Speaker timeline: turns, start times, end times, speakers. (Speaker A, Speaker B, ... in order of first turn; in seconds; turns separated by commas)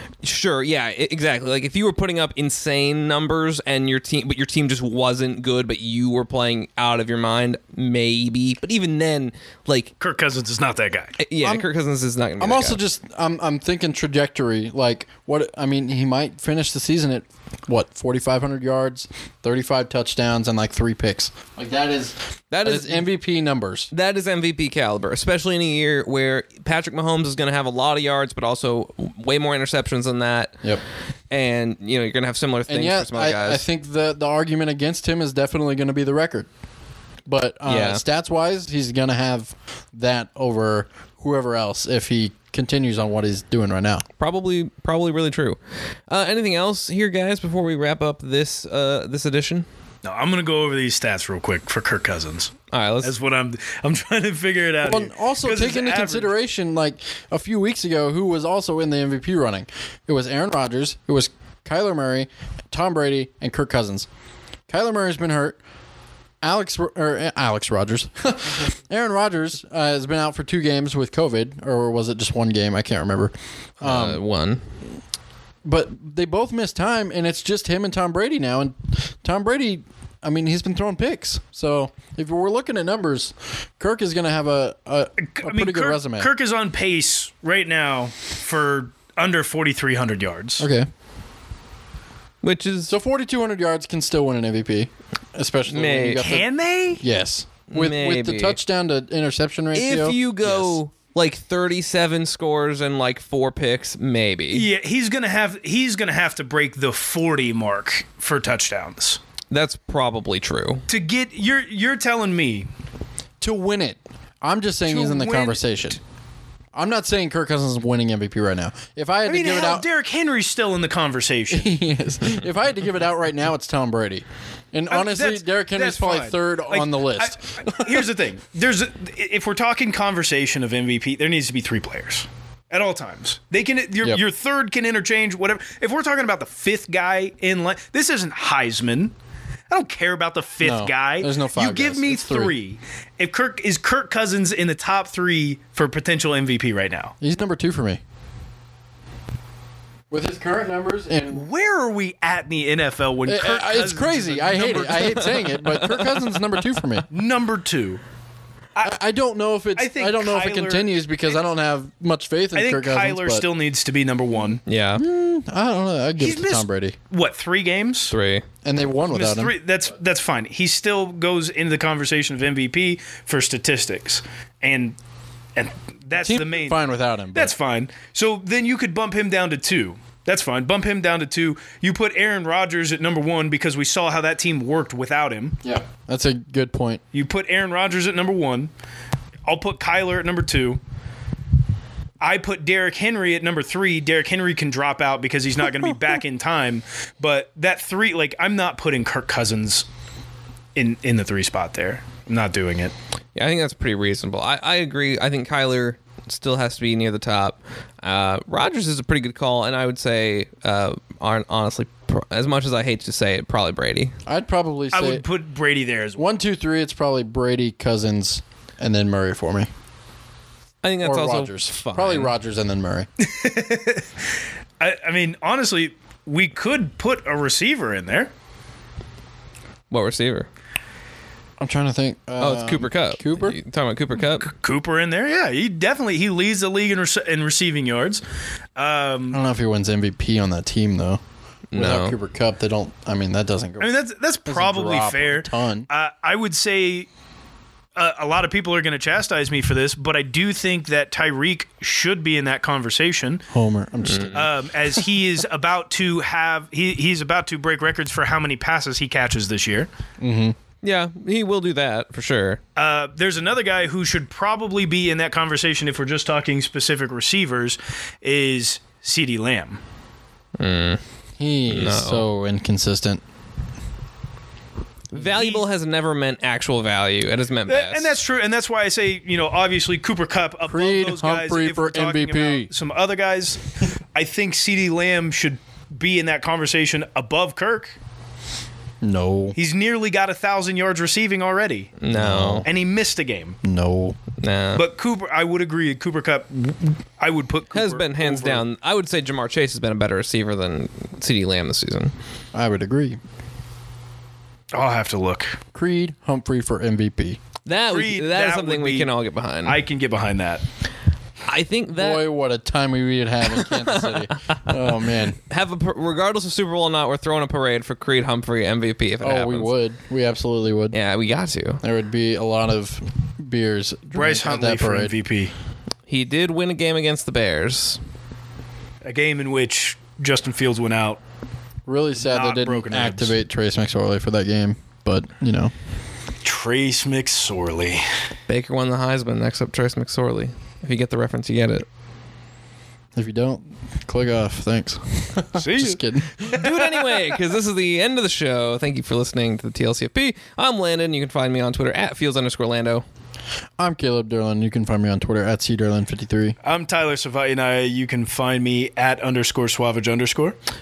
Speaker A: 0.2-9.9, Speaker B: 10.0-11.2, Speaker A: 11.2-12.8, Speaker C: 11.4-11.7, Speaker C: 12.4-23.9, Speaker A: 22.5-23.1, Speaker A: 23.9-30.6, Speaker A: 31.3-33.6, Speaker C: 32.7-36.5, Speaker C: 37.3-44.0, Speaker A: 37.6-38.0, Speaker A: 44.2-49.6, Speaker B: 50.0-56.3, Speaker A: 52.7-53.1, Speaker C: 54.8-64.1, Speaker C: 64.7-65.6, Speaker C: 66.4-74.2, Speaker A: 73.8-74.6, Speaker C: 75.6-86.3, Speaker B: 85.2-90.7, Speaker C: 90.6-90.9, Speaker A: 92.4-92.9, Speaker C: 92.9-96.5, Speaker A: 95.7-96.3, Speaker B: 96.2-97.0, Speaker C: 97.0-100.8, Speaker A: 97.7-98.6, Speaker A: 99.7-104.7, Speaker B: 104.5-109.2, Speaker A: 109.5-110.8, Speaker B: 110.9-112.7, Speaker C: 113.4-116.0, Speaker B: 114.9-115.6, Speaker C: 116.7-119.8, Speaker B: 119.2-121.7, Speaker C: 121.5-128.1, Speaker B: 124.9-139.1, Speaker B: 139.7-147.1, Speaker C: 140.6-142.5, Speaker C: 147.2-148.0, Speaker C: 150.1-151.4, Speaker B: 151.3-155.3, Speaker C: 153.2-157.1, Speaker A: 155.2-156.3, Speaker B: 157.1-158.0, Speaker C: 158.8-163.4, Speaker B: 159.8-161.4, Speaker B: 162.5-164.6, Speaker A: 164.7-165.0, Speaker C: 165.0-166.9, Speaker B: 166.2-168.1, Speaker A: 168.1-168.4, Speaker C: 168.6-169.5, Speaker B: 169.1-174.9, Speaker B: 175.6-176.8, Speaker C: 176.2-177.5, Speaker B: 177.3-185.6, Speaker C: 185.6-187.0, Speaker B: 187.1-188.7, Speaker B: 189.5-190.8, Speaker B: 192.2-199.9, Speaker B: 200.7-202.9, Speaker A: 203.3-214.2, Speaker C: 214.2-215.2, Speaker B: 214.9-216.2, Speaker C: 216.2-219.7, Speaker A: 220.8-222.3, Speaker C: 221.0-223.1, Speaker B: 223.2-224.1, Speaker B: 224.8-228.3, Speaker A: 229.9-230.5, Speaker C: 231.6-233.6, Speaker A: 232.4-234.5, Speaker B: 234.3-238.2, Speaker B: 238.8-239.4, Speaker C: 239.3-241.2, Speaker A: 241.7-242.1, Speaker C: 241.7-243.9, Speaker B: 243.8-247.1, Speaker C: 244.5-245.9, Speaker B: 247.9-253.4, Speaker C: 253.5-254.5, Speaker A: 254.0-254.4, Speaker B: 254.3-259.9, Speaker C: 260.2-260.6, Speaker A: 260.8-262.6, Speaker B: 262.8-269.8, Speaker A: 270.6-271.0, Speaker C: 271.4-273.2, Speaker A: 271.7-272.2, Speaker A: 275.1-278.2, Speaker B: 275.2-275.6, Speaker B: 277.7-287.9, Speaker C: 280.6-282.7, Speaker C: 289.0-289.6, Speaker B: 289.6-291.9, Speaker A: 292.0-292.6, Speaker C: 292.1-292.7, Speaker B: 292.6-293.6, Speaker C: 293.6-294.2, Speaker A: 294.4-294.8, Speaker B: 294.7-298.6, Speaker A: 297.7-302.1, Speaker C: 302.5-303.2, Speaker B: 304.7-305.6, Speaker C: 305.7-307.4, Speaker A: 307.6-309.8, Speaker B: 307.9-310.6, Speaker A: 311.5-312.2, Speaker C: 312.0-315.4, Speaker A: 313.5-314.9, Speaker A: 315.4-319.7, Speaker C: 319.2-320.9, Speaker A: 320.9-321.8, Speaker C: 321.8-325.1, Speaker B: 324.1-325.5, Speaker A: 326.1-328.0, Speaker B: 329.0-331.2, Speaker C: 331.9-335.7, Speaker B: 332.2-333.3, Speaker B: 336.4-338.0, Speaker A: 338.5-341.9, Speaker C: 343.1-346.4, Speaker B: 345.6-347.4, Speaker A: 346.4-353.0, Speaker C: 353.8-356.6, Speaker B: 356.6-360.6